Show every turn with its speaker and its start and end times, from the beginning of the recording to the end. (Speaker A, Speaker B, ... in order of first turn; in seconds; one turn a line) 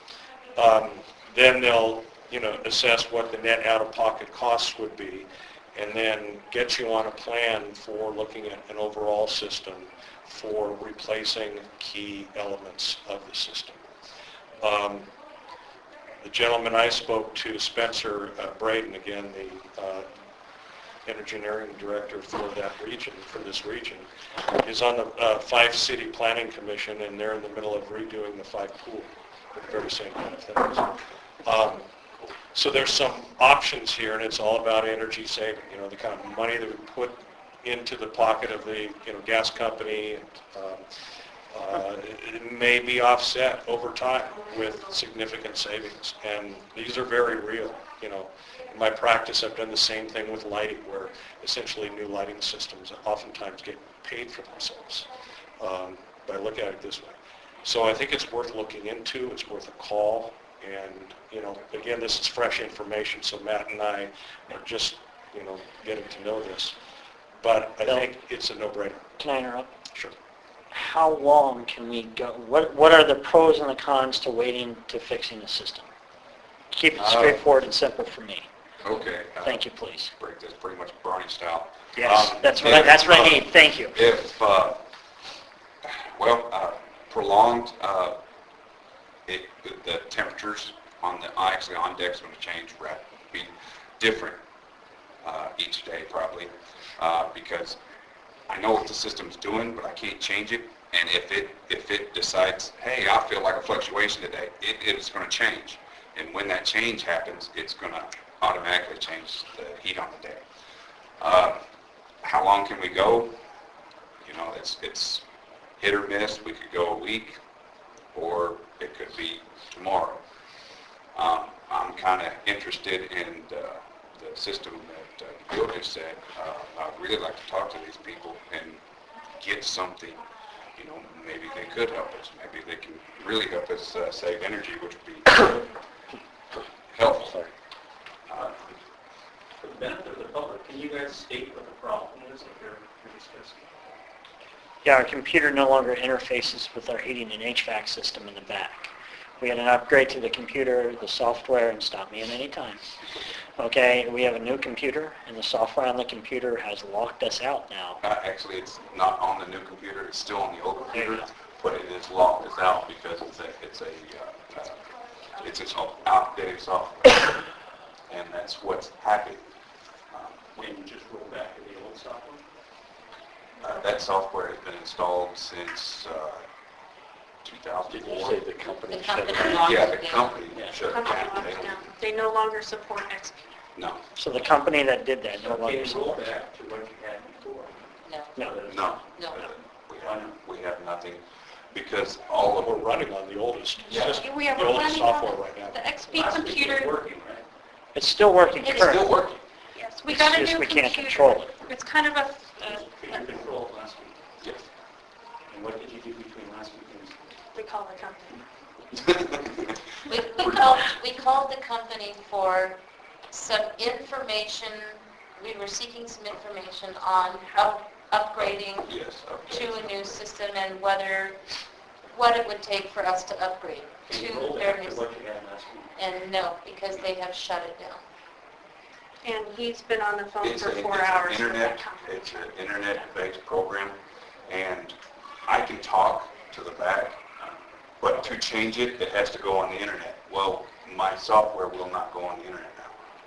Speaker A: 0.6-13.9
Speaker A: 14.6-15.1
Speaker A: 16.2-20.1
Speaker A: 21.1-24.1
Speaker A: 24.6-30.9
Speaker A: 31.4-31.8
Speaker A: 32.5-40.8
Speaker A: 41.5-55.1
Speaker A: 55.6-66.8
Speaker A: 67.4-69.1
Speaker B: 69.2-69.7
Speaker B: 70.7-75.9
Speaker B: 76.7-78.5
Speaker C: 77.0-77.4
Speaker C: 78.8-79.7
Speaker B: 79.4-80.1
Speaker C: 80.2-84.8
Speaker B: 82.0-84.0
Speaker C: 85.9-88.2
Speaker C: 89.3-94.4
Speaker C: 95.2-97.8
Speaker C: 98.5-110.4
Speaker C: 111.2-111.6
Speaker C: 112.2-113.4
Speaker C: 114.2-115.2
Speaker C: 115.8-117.4
Speaker C: 118.1-120.2
Speaker C: 121.1-128.8
Speaker C: 129.4-130.2
Speaker C: 130.8-135.6
Speaker C: 136.9-137.4
Speaker C: 138.3-138.6
Speaker D: 139.6-143.8
Speaker B: 144.8-148.9
Speaker B: 149.4-152.9
Speaker B: 153.6-158.0
Speaker C: 158.0-164.8
Speaker B: 160.9-161.2
Speaker C: 165.4-167.3
Speaker C: 168.1-169.4
Speaker C: 170.1-170.4
Speaker D: 170.5-172.4
Speaker C: 173.6-176.4
Speaker C: 177.4-178.4
Speaker D: 177.9-180.8
Speaker E: 178.9-180.4
Speaker C: 179.6-181.9
Speaker F: 180.9-183.5
Speaker C: 183.8-184.0
Speaker B: 184.2-186.2
Speaker D: 185.4-187.8
Speaker E: 188.1-188.5
Speaker D: 188.4-189.0
Speaker C: 188.7-191.2
Speaker E: 189.2-189.4
Speaker D: 190.0-190.4
Speaker C: 191.7-192.9
Speaker A: 192.5-195.8
Speaker C: 193.9-194.2
Speaker F: 194.2-196.9
Speaker E: 194.2-194.8
Speaker D: 196.1-197.4
Speaker B: 197.9-199.1
Speaker C: 198.6-199.4
Speaker F: 199.7-203.3
Speaker B: 200.1-201.5
Speaker D: 202.6-204.2
Speaker D: 205.5-207.2
Speaker F: 207.5-208.4
Speaker C: 208.9-209.6
Speaker E: 210.1-212.8
Speaker E: 213.3-218.9
Speaker C: 218.4-220.2
Speaker E: 219.5-221.4
Speaker E: 222.1-225.0
Speaker D: 224.1-225.9
Speaker E: 226.0-228.0
Speaker F: 229.2-232.6
Speaker C: 230.4-237.4
Speaker C: 238.0-242.9